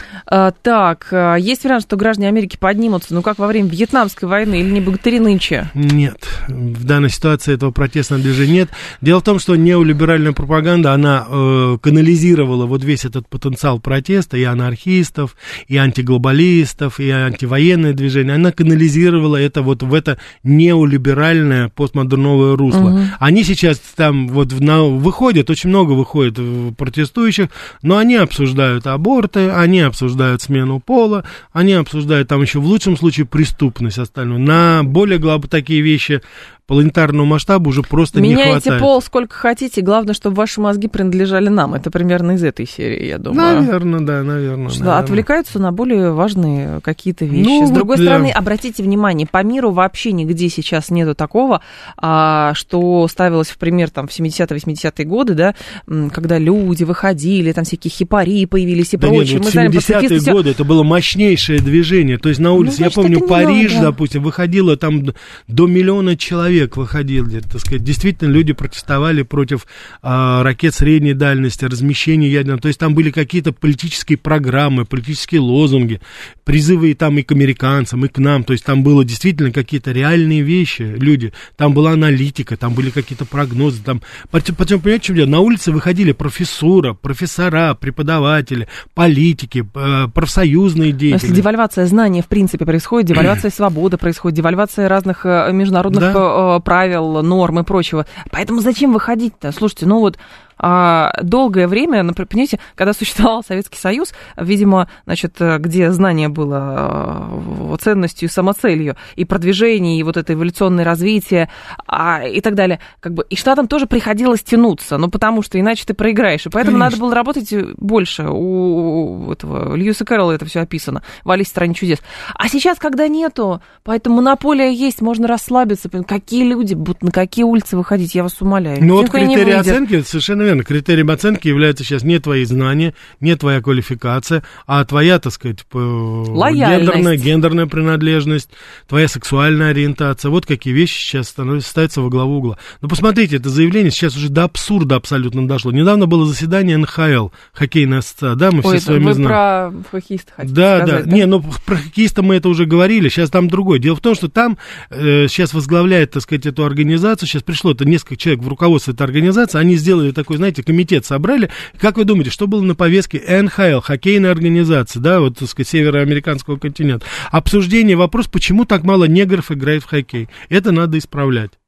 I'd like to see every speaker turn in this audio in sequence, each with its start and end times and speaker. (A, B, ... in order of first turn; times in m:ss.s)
0:00.3-0:05.7 A
0:05.7-0:38.9 B
0:22.7-0:23.1 A
0:38.1-0:43.7 A
0:43.3-0:45.2 B
0:44.7-1:00.4 A
0:47.3-0:48.3 B
0:59.0-1:31.4 B
1:02.6-1:03.9 A
1:31.1-2:09.8 A
1:35.9-1:36.2 B
1:56.6-1:57.0 B
2:08.8-2:29.4 B
2:16.3-2:17.2 A
2:28.6-2:31.2 A
2:30.4-2:51.6 B